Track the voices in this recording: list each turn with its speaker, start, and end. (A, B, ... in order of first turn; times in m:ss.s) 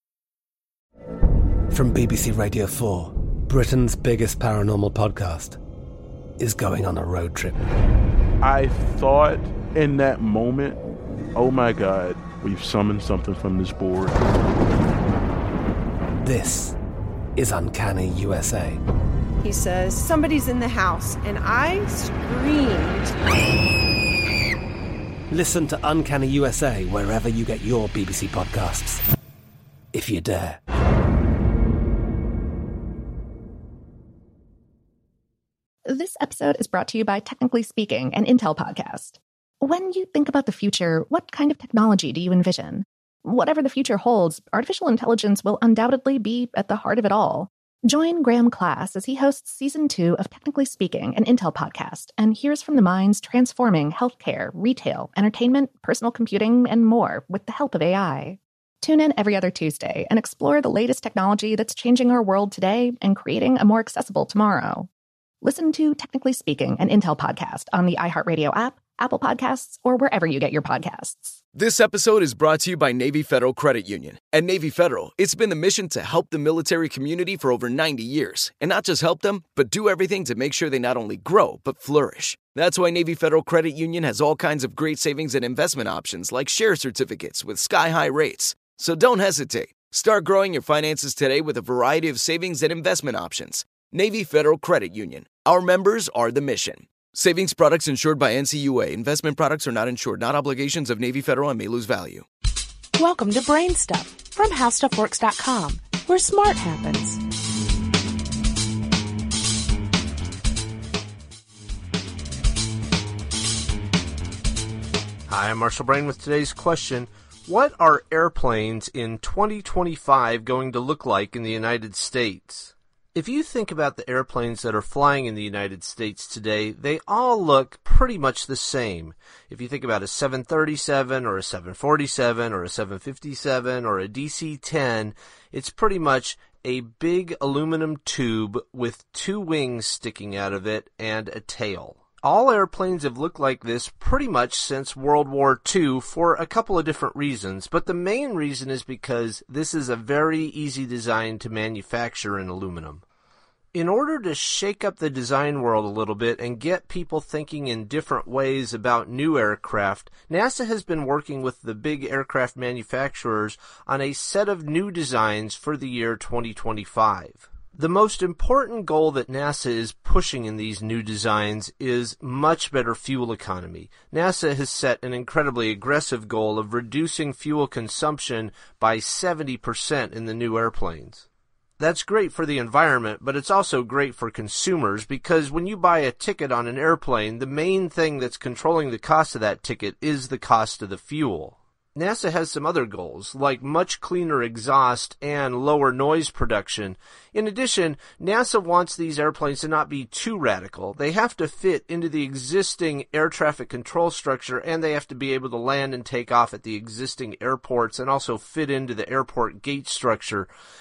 0:01.7-0:05.6 A
0:06.4-0:07.6 A
0:08.4-0:10.8 B
0:11.4-0:14.2 B
0:16.2-0:16.7 A
0:17.4-0:18.8 A
0:19.4-0:23.1 C
0:25.3-0:29.0 A
0:29.9-0:30.6 A
0:35.8-1:04.9 D
1:05.4-1:11.4 D
1:11.5-1:42.2 E
1:43.0-1:47.2 F
1:55.3-2:33.0 G
2:33.7-3:01.2 G
3:01.8-3:30.5 G